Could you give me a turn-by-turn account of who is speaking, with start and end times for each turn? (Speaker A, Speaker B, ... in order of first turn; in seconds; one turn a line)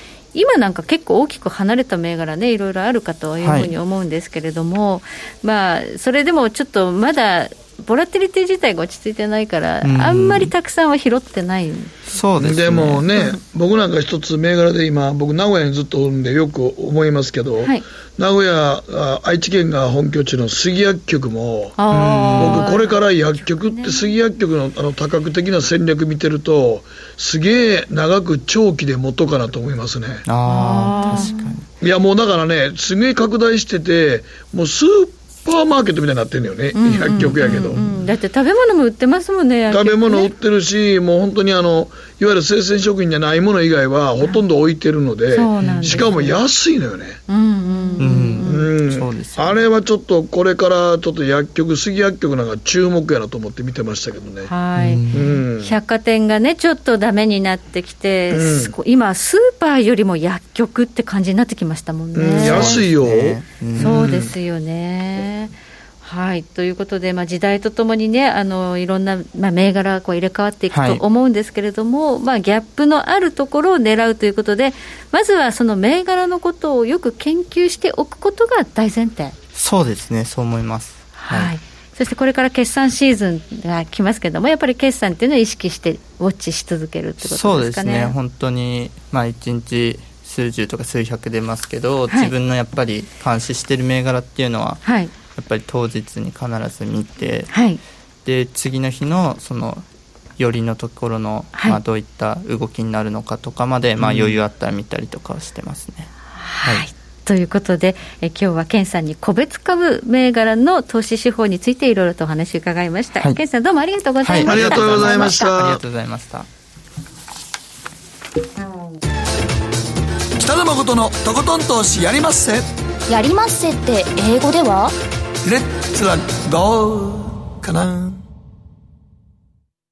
Speaker A: 0.3-11.9
Speaker B: 3.4-3.7
Speaker B: 9.8-10.5
Speaker B: 12.1-13.1
Speaker C: 12.4-30.2
Speaker A: 21.8-24.1
Speaker B: 21.9-22.8
Speaker B: 30.3-31.6
Speaker A: 30.5-31.4
Speaker D: 30.9-31.5
Speaker C: 31.8-38.0
Speaker A: 36.8-40.3
Speaker C: 39.7-47.2
Speaker A: 45.3-46.4
Speaker A: 47.3-48.7
Speaker D: 47.8-48.2
Speaker B: 48.0-49.6
Speaker C: 48.4-54.5
Speaker A: 54.5-55.0
Speaker B: 54.8-55.4
Speaker C: 55.1-55.8
Speaker A: 55.6-62.8
Speaker C: 58.3-58.8
Speaker C: 62.1-64.3
Speaker B: 62.4-64.1
Speaker A: 63.8-79.3
Speaker B: 70.7-71.0
Speaker B: 79.5-81.6
Speaker A: 81.2-88.2
Speaker B: 87.2-94.8
Speaker A: 94.8-95.1
Speaker B: 95.3-97.5
Speaker A: 97.5-97.8
Speaker B: 98.2-99.8
Speaker B: 100.4-106.1
Speaker C: 104.0-104.4
Speaker A: 106.3-115.5
Speaker B: 114.2-116.5
Speaker C: 114.5-115.8
Speaker C: 120.4-122.7
Speaker D: 123.1-125.0
Speaker C: 125.5-128.2